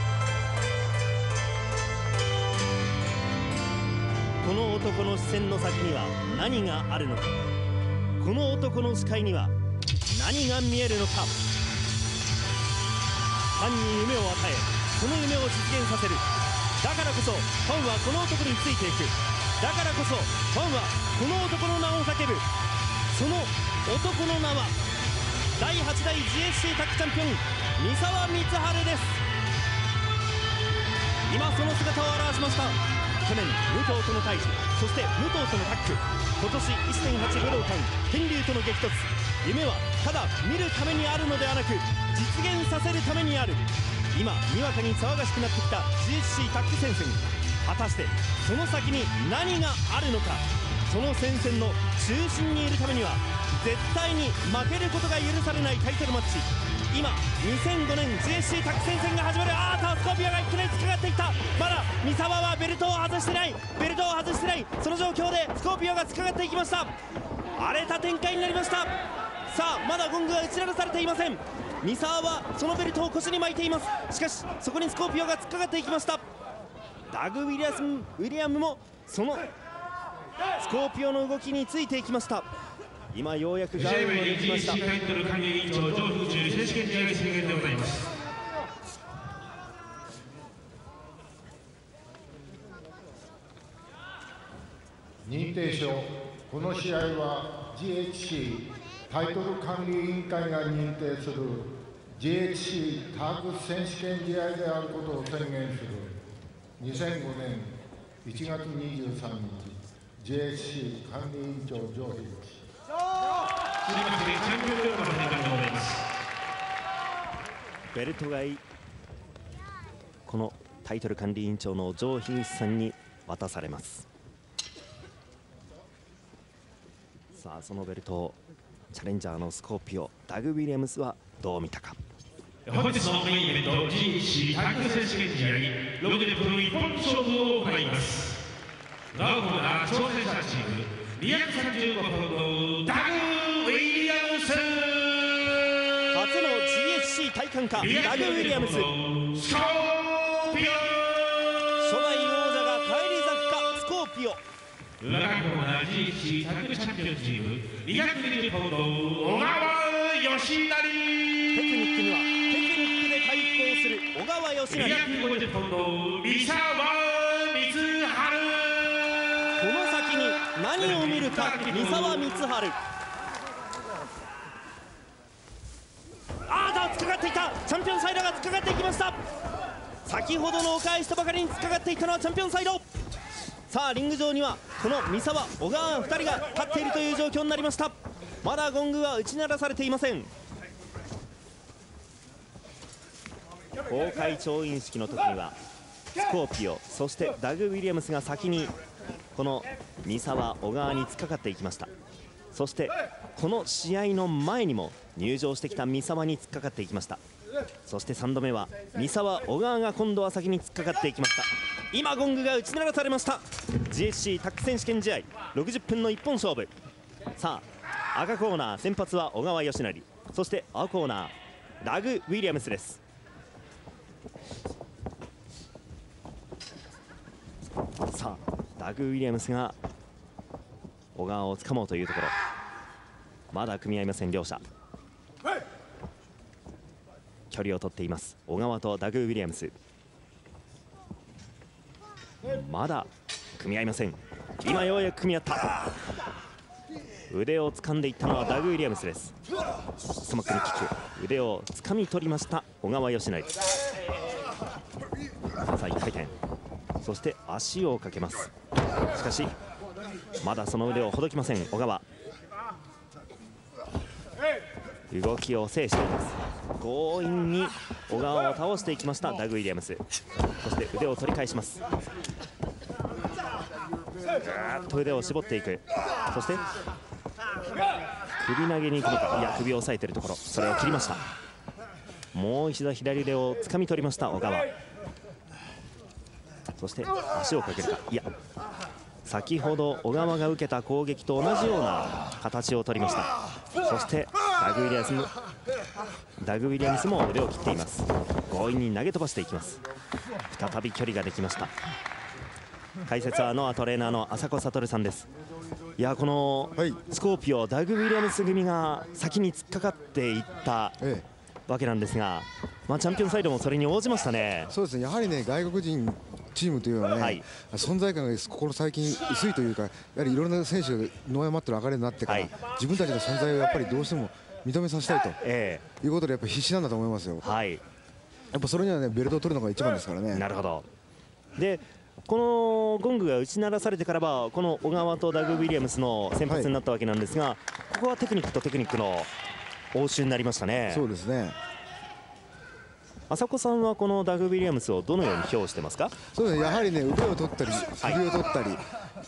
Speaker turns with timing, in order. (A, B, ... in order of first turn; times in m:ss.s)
0:04.4-0:07.4 A
0:08.2-0:09.5 A
0:10.1-0:11.4 A
0:13.6-0:16.2 A
0:16.8-0:22.4 A
0:23.1-0:24.8 A
0:25.6-0:29.2 A
0:31.3-1:06.9 A
1:07.6-1:08.9 A
1:09.5-1:16.2 A
1:17.1-1:19.5 A
1:20.6-1:22.5 A
1:23.1-1:24.8 A
1:23.8-1:28.1 B
1:35.2-1:46.2 C
1:46.8-1:52.6 C
1:53.8-1:56.0 B
1:57.9-1:58.6 A
2:00.3-2:04.1 A
2:07.3-2:08.4 A
2:08.9-2:12.0 A
2:12.7-2:18.3 B
2:19.1-2:25.7 B
2:26.1-2:28.9 A
2:27.8-2:31.4 B
2:31.8-2:34.4 A
2:35.0-2:41.5 B
2:41.5-2:45.1 A
2:44.7-2:49.1 B
2:49.6-2:52.8 A
2:50.8-2:52.2 B
2:56.5-2:59.2 A
3:00.0-3:02.8 A
3:03.7-3:10.3 A
3:13.9-3:15.6 A
3:16.2-3:18.7 A
3:19.4-3:21.9 A
3:22.5-3:27.2 A
3:27.9-3:36.7 A
3:37.4-3:43.0 A
3:48.1-3:49.8 A
3:51.2-3:52.3 A
3:53.5-3:54.6 A
3:57.5-3:59.7 A
4:02.4-4:05.8 A
4:07.3-4:09.4 A
4:10.2-4:13.6 A
4:15.7-4:16.3 A
4:17.0-4:18.5 A
4:19.1-4:19.5 A
4:20.4-4:22.0 A
4:25.1-4:30.0 A
4:30.5-4:31.8 A
4:34.4-4:36.6 A
4:38.4-4:41.2 A
4:42.3-4:44.7 A
4:46.8-4:48.3 A
4:49.2-4:53.3 A
4:53.8-4:55.3 A
4:56.4-4:59.8 A
5:00.5-5:01.7 A
5:03.1-5:05.3 A
5:06.0-5:11.0 A
5:11.0-5:11.2 D
5:11.7-5:14.7 A
5:14.7-5:25.4 D
5:17.2-5:17.4 A
5:22.3-5:22.5 A
5:25.4-5:25.8 A
5:26.0-5:27.4 D
5:27.4-5:27.8 A
5:28.5-5:30.4 D
5:30.3-5:30.9 A
5:31.6-5:39.3 A
5:36.5-5:36.7 D
5:39.9-5:41.1 A
5:40.9-5:41.6 D
5:43.3-5:46.2 A
5:46.3-5:48.8 D